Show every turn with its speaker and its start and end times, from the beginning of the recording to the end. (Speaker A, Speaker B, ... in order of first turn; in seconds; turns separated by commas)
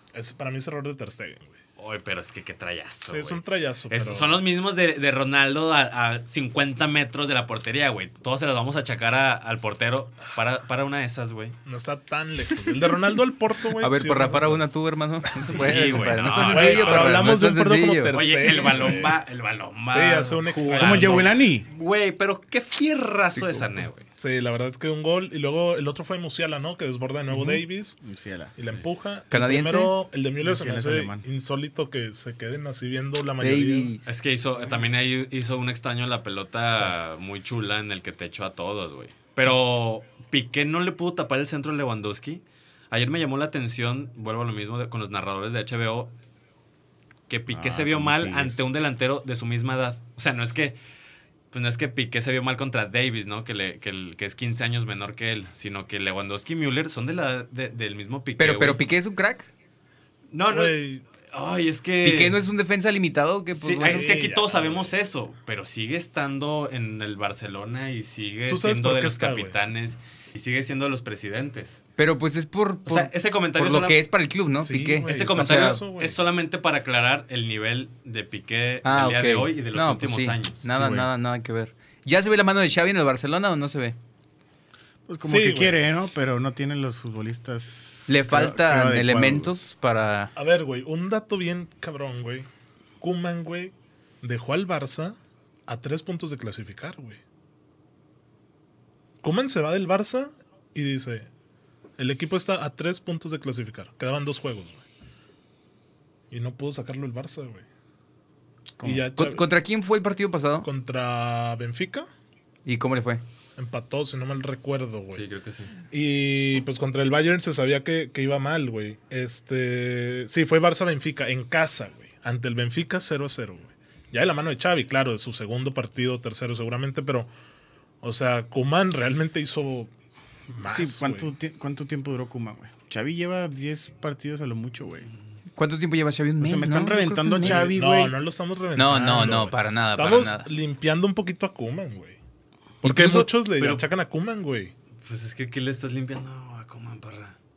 Speaker A: 0.1-1.5, Speaker B: 1.8-11.6, Speaker A: 3.1-4.4, Speaker A: 11.6-14.6, Speaker C: 13.8-18.2, Speaker A: 15.4-15.8, Speaker B: 15.5-17.4, Speaker D: 16.1-16.9, Speaker A: 16.5-19.2, Speaker B: 18.1-24.1, Speaker A: 19.9-21.3, Speaker D: 20.7-21.7, Speaker C: 23.4-23.8, Speaker A: 24.2-28.0, Speaker D: 27.3-28.5, Speaker A: 28.6-33.9, Speaker C: 29.3-30.0, Speaker D: 30.4-31.2, Speaker C: 33.4-34.1, Speaker B: 34.0-46.1, Speaker D: 34.5-34.9, Speaker B: 47.3-50.8, Speaker D: 47.5-48.6, Speaker B: 51.5-58.8, Speaker C: 58.4-59.5, Speaker B: 60.3-62.4, Speaker A: 60.5-61.0, Speaker C: 62.0-64.1, Speaker B: 63.5-71.8, Speaker A: 63.8-64.9, Speaker A: 68.5-69.6, Speaker C: 72.0-75.8, Speaker B: 72.8-74.0, Speaker A: 74.6-76.2, Speaker B: 75.0-80.6, Speaker C: 78.8-84.0, Speaker D: 85.1-89.5, Speaker A: 85.2-85.8, Speaker C: 88.1-90.3, Speaker A: 90.3-92.5, Speaker A: 93.0-97.2, Speaker A: 99.2-101.3, Speaker A: 102.0-104.8, Speaker A: 106.3-107.6, Speaker D: 108.8-109.1, Speaker A: 108.8-109.5, Speaker C: 109.2-110.7, Speaker A: 110.6-112.1, Speaker C: 112.6-113.2, Speaker A: 113.6-115.2, Speaker B: 115.1-115.7, Speaker A: 115.9-127.3, Speaker A: 128.0-129.9, Speaker A: 130.5-131.3, Speaker D: 130.6-135.1, Speaker C: 135.6-137.7, Speaker D: 136.4-138.2, Speaker A: 137.4-142.2, Speaker C: 138.8-140.5, Speaker C: 142.8-143.3, Speaker A: 142.8-144.7, Speaker B: 143.6-143.9, Speaker B: 145.0-147.3